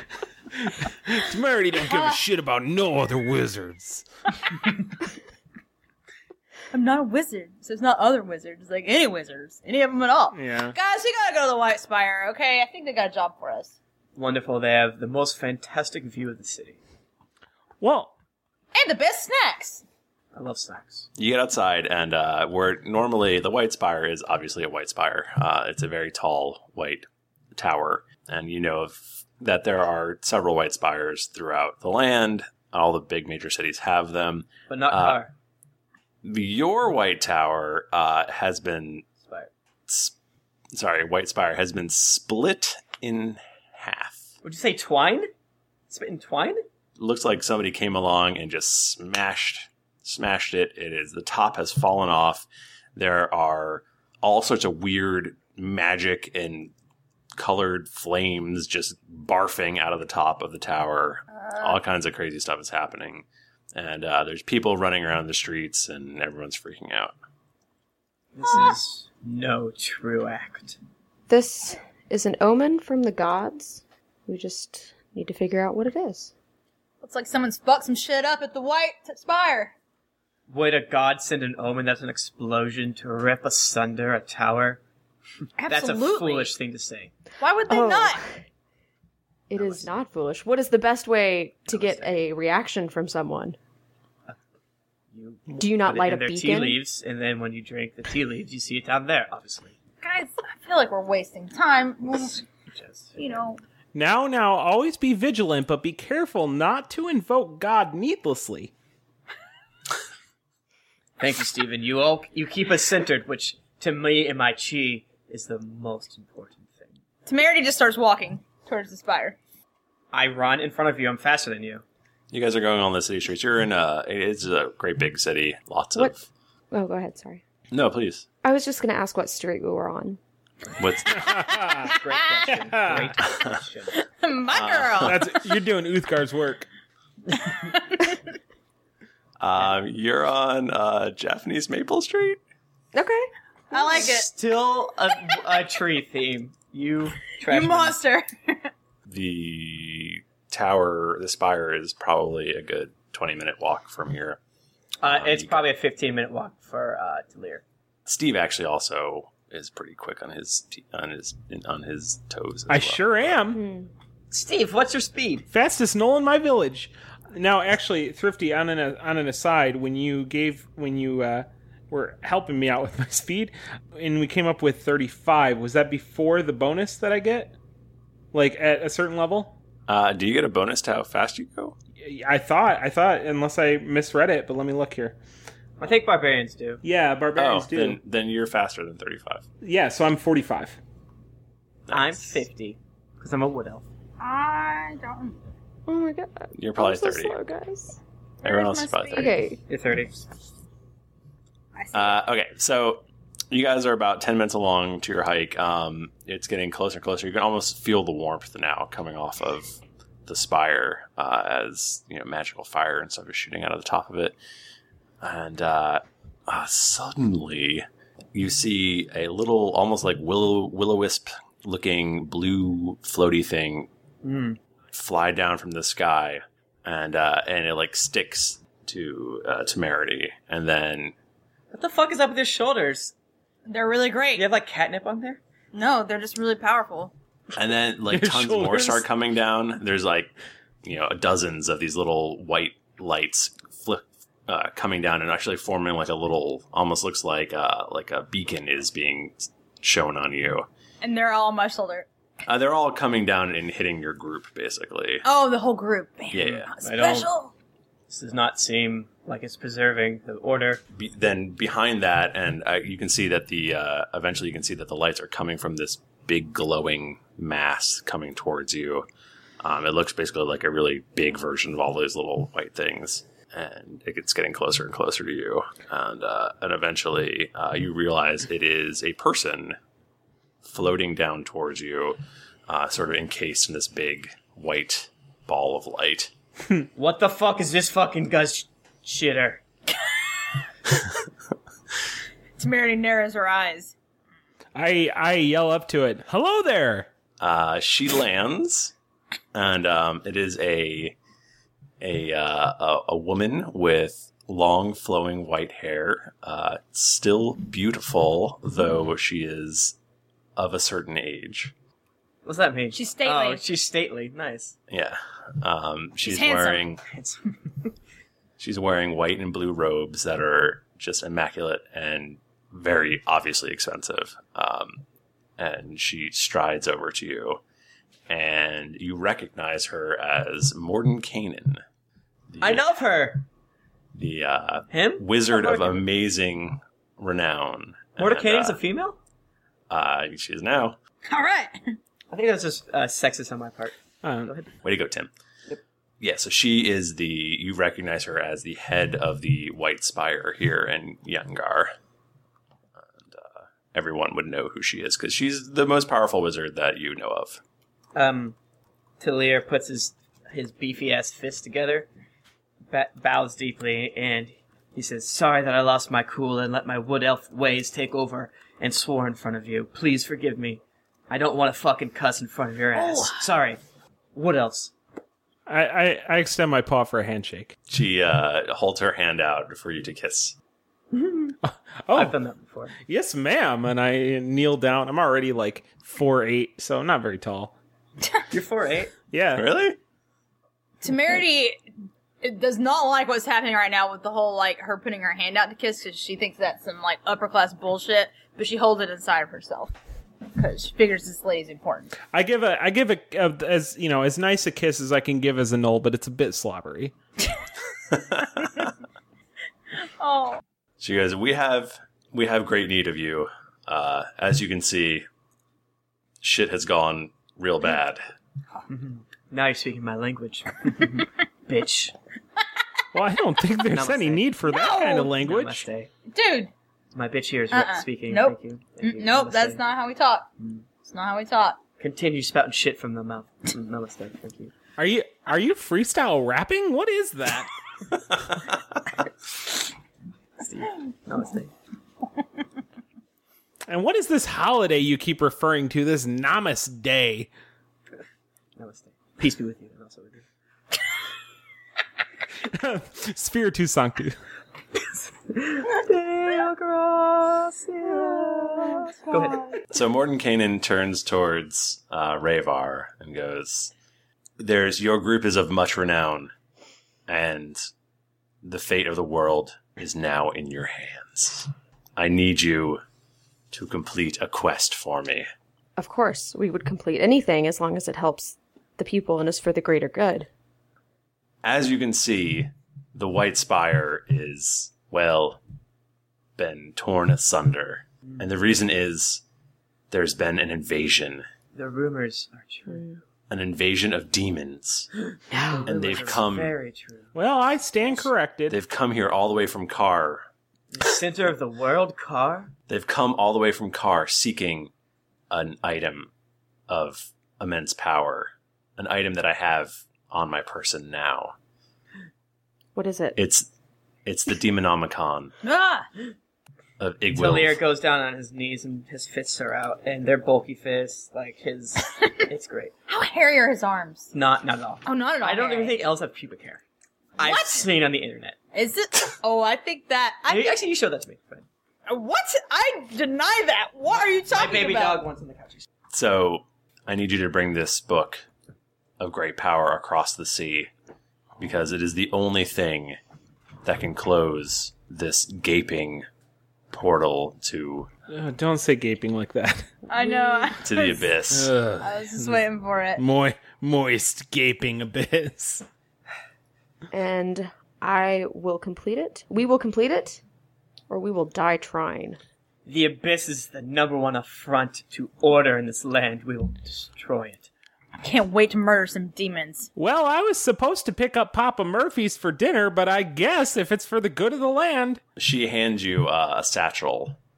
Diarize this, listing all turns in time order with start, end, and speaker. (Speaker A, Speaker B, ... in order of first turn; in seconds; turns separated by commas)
Speaker A: 0.7-4.0, Speaker B: 1.9-2.2, Speaker B: 6.7-13.7, Speaker A: 10.3-10.8, Speaker C: 14.2-16.8, Speaker A: 17.8-18.1, Speaker B: 18.7-19.8, Speaker C: 20.3-21.1, Speaker D: 21.2-35.2, Speaker C: 34.7-35.3, Speaker D: 36.2-39.0, Speaker C: 39.2-39.5, Speaker D: 39.9-40.1, Speaker D: 40.7-44.3, Speaker C: 44.4-45.3, Speaker C: 45.9-46.6, Speaker D: 47.0-56.7, Speaker D: 57.4-67.1, Speaker B: 61.4-61.8, Speaker C: 68.3-70.8, Speaker E: 71.3-76.3, Speaker B: 77.0-79.7, Speaker C: 80.5-84.8, Speaker B: 85.6-86.5, Speaker C: 85.7-87.1, Speaker B: 87.4-88.2, Speaker E: 87.7-88.2, Speaker E: 89.5-93.6, Speaker C: 89.6-89.9, Speaker C: 91.7-92.2, Speaker C: 95.1-99.8, Speaker E: 95.5-96.8, Speaker B: 100.0-102.5, Speaker C: 102.7-103.2, Speaker B: 103.2-103.6, Speaker A: 103.9-108.7, Speaker C: 111.2-117.0, Speaker B: 117.3-119.4, Speaker C: 120.1-121.8, Speaker D: 122.3-126.3, Speaker E: 126.7-127.4, Speaker D: 127.7-128.2, Speaker E: 128.4-130.2, Speaker D: 130.8-131.3, Speaker A: 131.1-131.9, Speaker C: 131.8-133.9, Speaker A: 132.5-133.1, Speaker D: 133.3-133.5, Speaker B: 134.0-135.2, Speaker D: 134.5-135.2, Speaker A: 135.0-136.7, Speaker B: 137.5-138.1, Speaker D: 139.4-142.4, Speaker E: 142.9-143.9, Speaker B: 143.7-144.3, Speaker C: 144.1-148.0, Speaker B: 147.4-148.7, Speaker D: 149.1-154.4, Speaker C: 155.0-157.6, Speaker D: 155.0-155.7, Speaker D: 158.1-163.0, Speaker A: 162.7-163.6, Speaker E: 163.5-163.9, Speaker C: 164.3-165.5, Speaker A: 165.5-177.5, Speaker A: 178.3-179.5, Speaker D: 179.9-181.8, Speaker A: 182.0-185.2, Speaker C: 185.8-186.8, Speaker A: 186.8-188.0, Speaker D: 187.4-189.5, Speaker A: 189.6-190.8, Speaker D: 191.9-192.4, Speaker C: 191.9-193.8, Speaker B: 194.2-195.5, Speaker E: 195.9-198.0, Speaker D: 196.6-197.4, Speaker D: 198.4-199.3, Speaker B: 198.4-199.5, Speaker E: 199.1-199.6, Speaker C: 199.7-200.2, Speaker B: 201.8-202.2, Speaker D: 201.9-214.4, Speaker D: 215.2-223.9, Speaker C: 224.2-224.6, Speaker D: 224.9-231.1, Speaker C: 231.7-233.1, Speaker B: 233.7-234.5, Speaker C: 234.3-235.4, Speaker B: 235.7-237.1, Speaker D: 237.6-240.3, Speaker A: 238.1-239.0, Speaker D: 240.8-250.7, Speaker B: 251.0-252.1, Speaker D: 252.5-255.3, Speaker B: 255.2-257.5, Speaker D: 256.3-256.7, Speaker C: 256.8-257.3, Speaker C: 258.1-260.8, Speaker D: 260.9-269.1, Speaker D: 269.6-279.8, Speaker D: 280.6-286.3, Speaker C: 287.0-289.6, Speaker B: 292.6-293.9, Speaker A: 294.8-297.1, Speaker D: 297.4-298.9, Speaker D: 299.5-301.1, Speaker D: 302.0-309.9, Speaker D: 310.6-311.7, Speaker C: 312.4-314.8, Speaker B: 312.9-313.6, Speaker D: 314.9-317.0, Speaker B: 316.2-316.8, Speaker C: 317.1-317.4, Speaker D: 318.6-325.0, Speaker D: 325.6-327.6, Speaker D: 328.3-331.8, Speaker D: 332.5-332.9, Speaker C: 332.6-333.4, Speaker D: 334.1-338.8, Speaker C: 334.9-336.0, Speaker C: 338.2-339.2, Speaker D: 339.9-341.0, Speaker B: 341.3-341.9, Speaker C: 342.3-343.9, Speaker A: 344.2-344.5, Speaker C: 344.4-344.7, Speaker D: 344.8-345.3, Speaker D: 346.2-351.9, Speaker D: 353.0-357.6, Speaker C: 358.1-358.6, Speaker C: 359.2-362.1, Speaker C: 362.9-373.8, Speaker B: 372.9-373.5, Speaker C: 374.3-374.9, Speaker A: 375.7-377.8, Speaker D: 377.9-380.6, Speaker C: 381.1-381.6, Speaker A: 381.7-382.4, Speaker C: 382.1-382.9, Speaker A: 383.1-387.7, Speaker C: 388.5-389.1, Speaker A: 389.3-389.6, Speaker D: 389.5-390.0, Speaker B: 391.0-391.8, Speaker B: 392.4-399.9, Speaker B: 400.6-402.1, Speaker A: 402.3-407.1, Speaker B: 410.2-410.6, Speaker D: 411.0-415.3, Speaker D: 416.4-418.2, Speaker C: 418.9-422.1, Speaker A: 423.1-425.9, Speaker C: 423.9-424.6, Speaker B: 424.7-425.3, Speaker C: 425.4-426.1, Speaker B: 426.3-426.7, Speaker C: 427.1-429.8, Speaker B: 427.7-431.8, Speaker C: 430.6-430.9, Speaker C: 432.0-434.7, Speaker A: 435.0-437.7, Speaker C: 440.6-441.7, Speaker A: 443.9-447.5, Speaker C: 448.8-450.4, Speaker A: 452.7-454.4, Speaker C: 455.0-459.7, Speaker B: 458.5-459.7, Speaker D: 459.9-463.9, Speaker D: 464.6-466.5, Speaker D: 467.3-467.8, Speaker D: 468.6-473.0, Speaker D: 473.7-475.5, Speaker E: 476.0-480.5, Speaker D: 481.6-485.6, Speaker D: 486.6-489.4, Speaker D: 490.1-491.4, Speaker C: 491.7-493.2, Speaker D: 493.5-495.1, Speaker E: 495.5-495.9, Speaker C: 495.6-497.4, Speaker D: 495.9-496.7, Speaker A: 497.4-498.8, Speaker D: 498.7-500.5, Speaker C: 500.9-502.7, Speaker D: 502.9-504.9, Speaker D: 505.5-506.3, Speaker D: 506.9-511.5, Speaker E: 513.0-513.4, Speaker D: 513.4-513.7, Speaker D: 514.2-515.5, Speaker B: 515.6-516.1, Speaker D: 517.0-517.8, Speaker C: 517.3-522.9, Speaker B: 522.2-522.5, Speaker B: 523.1-524.3, Speaker C: 524.3-526.8, Speaker B: 525.0-526.0, Speaker C: 527.4-528.6, Speaker B: 527.4-527.9, Speaker B: 528.7-530.8, Speaker C: 530.5-531.6, Speaker B: 532.1-535.3, Speaker C: 534.5-535.9, Speaker D: 536.1-538.4, Speaker D: 539.2-540.9, Speaker D: 541.6-543.2, Speaker D: 543.8-546.2, Speaker D: 546.9-548.1, Speaker A: 548.3-550.0, Speaker B: 550.1-551.2, Speaker E: 550.1-550.8, Speaker D: 550.8-551.7, Speaker A: 551.5-552.6, Speaker B: 552.0-553.2, Speaker A: 553.2-555.9, Speaker E: 557.1-560.4, Speaker E: 561.1-562.4, Speaker C: 562.9-567.7, Speaker B: 568.2-569.9, Speaker A: 570.0-575.2, Speaker D: 575.4-577.4